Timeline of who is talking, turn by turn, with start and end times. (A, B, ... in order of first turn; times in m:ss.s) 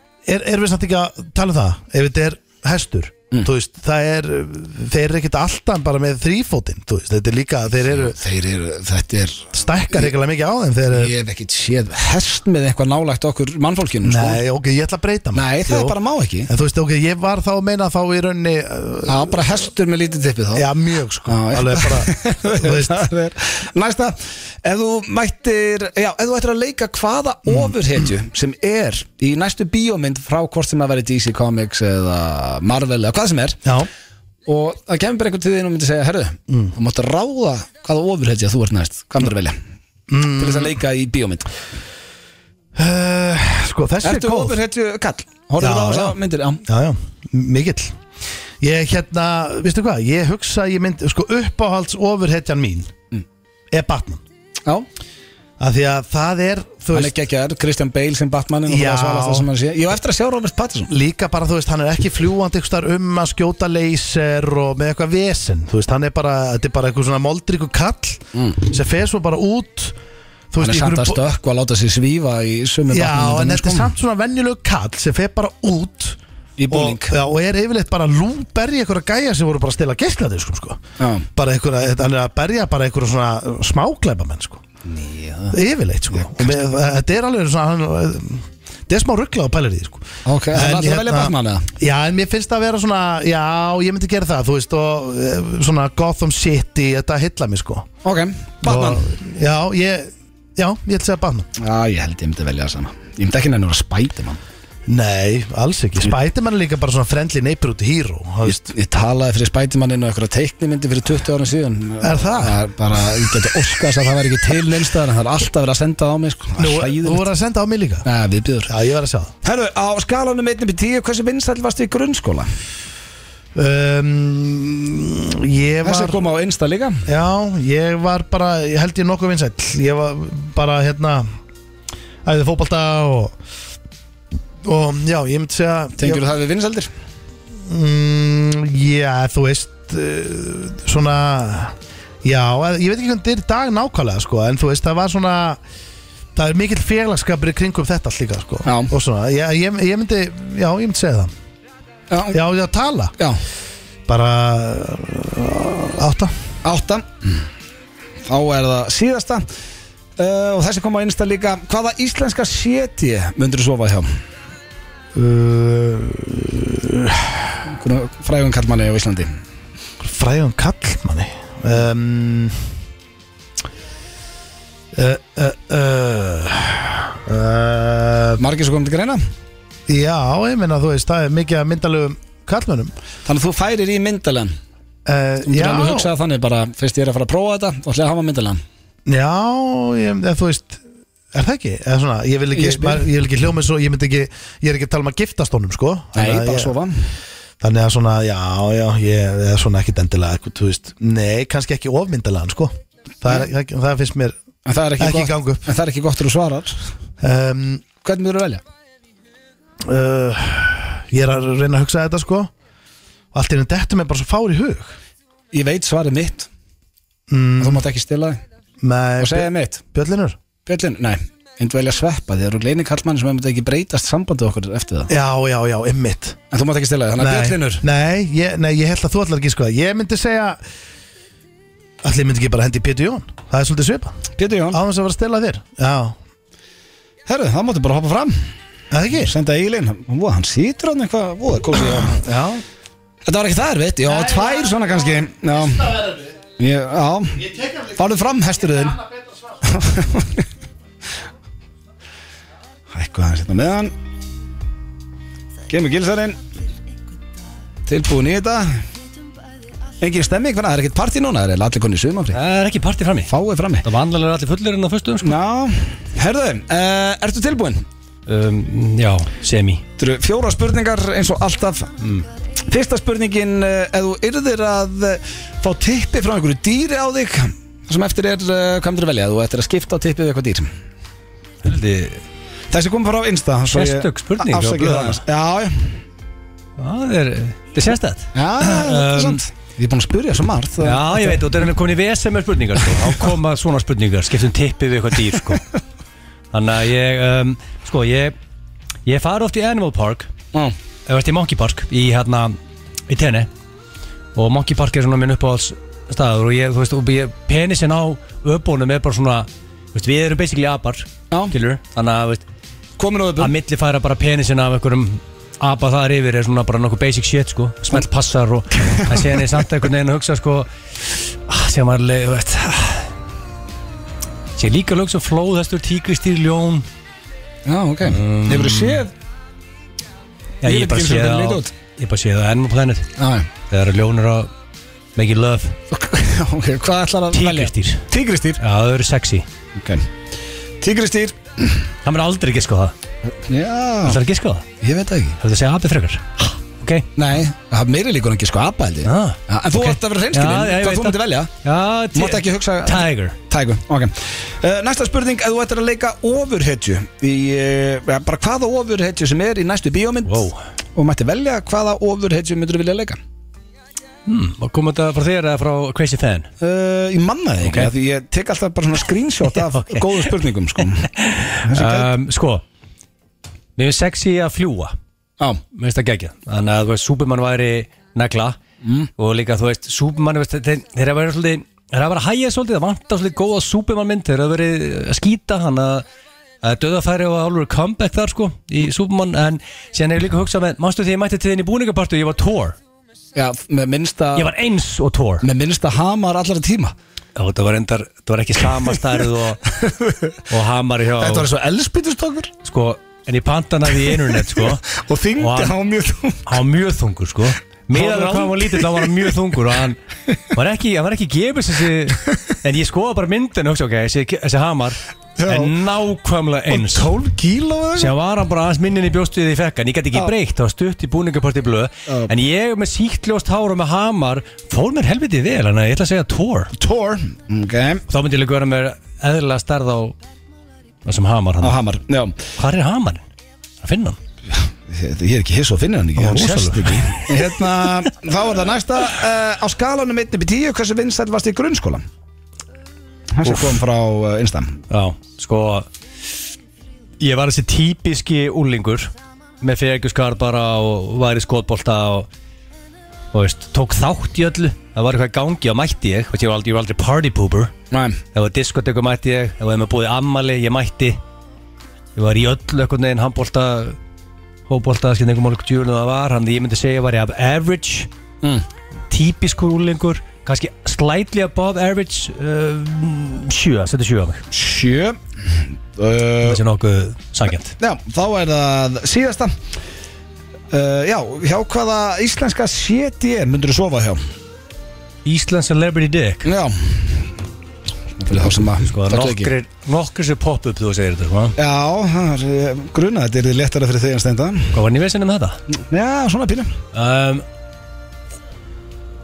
0:00.3-0:08.2 A
0:07.9-0:09.5 B
0:09.5-0:11.2 A
0:10.9-0:14.4 B
0:14.0-0:16.0 A
0:15.3-0:16.5 B
0:16.5-0:19.6 A
0:19.1-0:20.7 B
0:20.5-0:23.1 A
0:21.3-0:33.6 B
0:27.5-0:27.7 A
0:34.5-0:39.6 B
0:40.1-0:40.8 A
0:40.4-0:41.5 B
0:42.8-0:44.6 A
0:44.0-0:46.6 B
0:45.6-0:48.0 A
0:48.6-0:52.9 A
0:53.7-0:54.2 A
0:55.6-0:57.1 A
0:56.9-1:00.9 B
0:58.7-0:59.5 A
1:00.9-1:10.0 A
1:08.4-1:08.6 B
1:10.5-1:11.2 A
1:10.6-1:13.9 B
1:12.9-1:16.2 A
1:16.6-1:17.1 B
1:16.7-1:20.8 A
1:21.0-1:21.3 B
1:21.4-1:24.6 A
1:24.9-1:25.6 B
1:25.5-1:37.9 A
1:26.1-1:26.5 B
1:30.3-1:31.7 B
1:38.0-1:39.1 B
1:38.6-1:41.5 A
1:41.6-1:44.4 B
1:44.9-1:48.7 A
1:48.5-1:57.3 B
1:52.0-1:52.6 A
1:56.6-1:58.1 A
1:58.0-1:58.7 B
1:58.7-1:59.3 A
1:59.4-2:02.5 B
2:03.6-2:06.2 A
2:05.8-2:07.1 B
2:07.1-2:11.3 A
2:12.2-2:13.4 A
2:14.6-2:16.2 A
2:16.0-2:16.9 B
2:17.6-2:25.6 A
2:26.4-2:31.3 A
2:28.7-2:28.9 B
2:32.1-2:32.4 B
2:32.3-2:33.1 A
2:34.1-2:36.3 A
2:36.6-2:37.5 B
2:38.3-2:39.5 B
2:40.2-2:44.1 B
2:45.2-2:47.6 A
2:47.7-2:49.4 B
2:50.0-2:52.6 A
2:54.9-2:58.4 A
2:58.4-2:59.2 B
2:59.9-3:02.9 A
3:03.3-3:04.5 B
3:05.1-3:06.1 A
3:05.5-3:08.6 B
3:09.1-3:16.7 A
3:12.6-3:13.1 B
3:16.2-3:17.0 B
3:17.6-3:24.4 A
3:24.7-3:26.8 B
3:25.0-3:25.7 A
3:27.2-3:27.8 A
3:28.0-3:28.6 B
3:29.9-3:32.5 A
3:33.3-3:35.0 A
3:35.5-3:36.5 B
3:37.3-3:37.9 A
3:37.6-3:38.4 B
3:38.8-3:40.4 A
3:39.2-3:39.8 B
3:40.7-3:45.1 B
3:45.1-3:46.4 A
3:46.5-3:47.8 B
3:47.2-3:50.6 A
3:52.0-3:54.2 A
3:54.4-3:54.8 B
3:54.7-3:56.2 A
3:57.3-3:58.4 B
3:58.9-3:59.3 A
3:59.2-4:02.2 B
4:02.3-4:02.6 C
4:03.3-4:06.0 B
4:04.1-4:04.8 A
4:05.6-4:06.4 A
4:06.6-4:09.1 B
4:07.4-4:08.0 A
4:09.6-4:10.5 B
4:12.9-4:13.9 B
4:15.7-4:16.4 B
4:17.9-4:18.8 B
4:20.0-4:22.4 B
4:22.3-4:23.3 C
4:23.3-4:23.8 B
4:23.8-4:25.4 C
4:25.2-4:27.8 B
4:28.3-4:29.8 C
4:30.0-4:31.9 B
4:32.0-4:32.3 C
4:32.7-4:40.7 B
4:41.6-4:42.2 C
4:42.7-4:46.0 B
4:43.7-4:45.2 C
4:46.8-4:49.4 C
4:48.4-4:51.4 B
4:50.8-4:55.6 C
4:56.5-4:58.4 C
4:59.1-5:00.3 C
5:01.1-5:02.6 C
5:03.1-5:03.5 C
5:04.4-5:12.4 C
5:13.0-5:13.5 B
5:13.4-5:20.7 C
5:18.8-5:19.5 B
5:21.5-5:23.1 C
5:24.6-5:26.9 C
5:27.7-5:29.1 B
5:28.1-5:29.0 C
5:30.6-5:33.1 C
5:30.6-5:31.7 B
5:33.2-5:33.5 B
5:33.7-5:34.5 C
5:35.2-5:35.8 C
5:35.9-5:38.6 B
5:37.3-5:38.1 C
5:38.6-5:39.5 C
5:39.8-5:40.1 B
5:40.8-5:41.8 B
5:42.0-5:42.9 C
5:43.3-5:44.2 B
5:44.0-5:44.7 C
5:44.8-5:45.4 B
5:45.4-5:47.1 C
5:47.2-5:51.5 B
5:49.0-5:53.4 C
5:52.2-6:03.2 B
6:00.3-6:00.6 C
6:04.3-6:06.5 C
6:06.6-6:11.1 B
6:07.6-6:07.9 C
6:09.6-6:10.3 C
6:11.0-6:12.6 C
6:11.7-6:12.1 B
6:13.8-6:14.9 C
6:15.7-6:18.6 C
6:18.8-6:19.1 B
6:19.2-6:26.0 C
6:26.6-6:32.8 C
6:33.4-6:34.5 B
6:34.4-6:35.4 C
6:35.4-6:36.9 B
6:37.4-6:39.6 C
6:39.7-6:40.4 B
6:40.5-6:41.5 C
6:41.2-6:42.5 B
6:42.6-6:44.8 C
6:44.1-6:46.6 B
6:45.4-6:45.8 C
6:46.5-6:50.0 C
6:47.9-6:49.4 B
6:50.5-6:57.1 C
6:55.4-6:55.7 B
6:56.7-6:58.1 B
6:58.0-7:06.7 C
7:06.8-7:08.0 B
7:08.1-7:10.2 C
7:11.0-7:11.8 C
7:11.6-7:12.4 B
7:12.6-7:13.2 C
7:13.8-7:14.2 C
7:14.5-7:22.0 B
7:16.2-7:17.3 C
7:16.3-7:16.7 A
7:23.3-7:24.8 B
7:23.4-7:23.8 C
7:24.9-7:25.9 C
7:27.2-7:32.3 C
7:33.3-7:37.7 C
7:37.9-7:38.2 B
7:38.3-7:41.2 C
7:42.2-7:44.0 C
7:44.7-7:48.1 C
7:49.1-7:54.4 C
7:54.5-7:56.6 B
7:56.4-7:57.7 C
7:57.8-7:59.6 B
8:00.7-8:04.2 B
8:05.2-8:06.5 C
8:06.4-8:07.3 B
8:08.2-8:09.5 B
8:08.8-8:11.6 C
8:11.6-8:14.7 B
8:14.7-8:15.6 C
8:15.9-8:16.8 B
8:16.9-8:17.4 C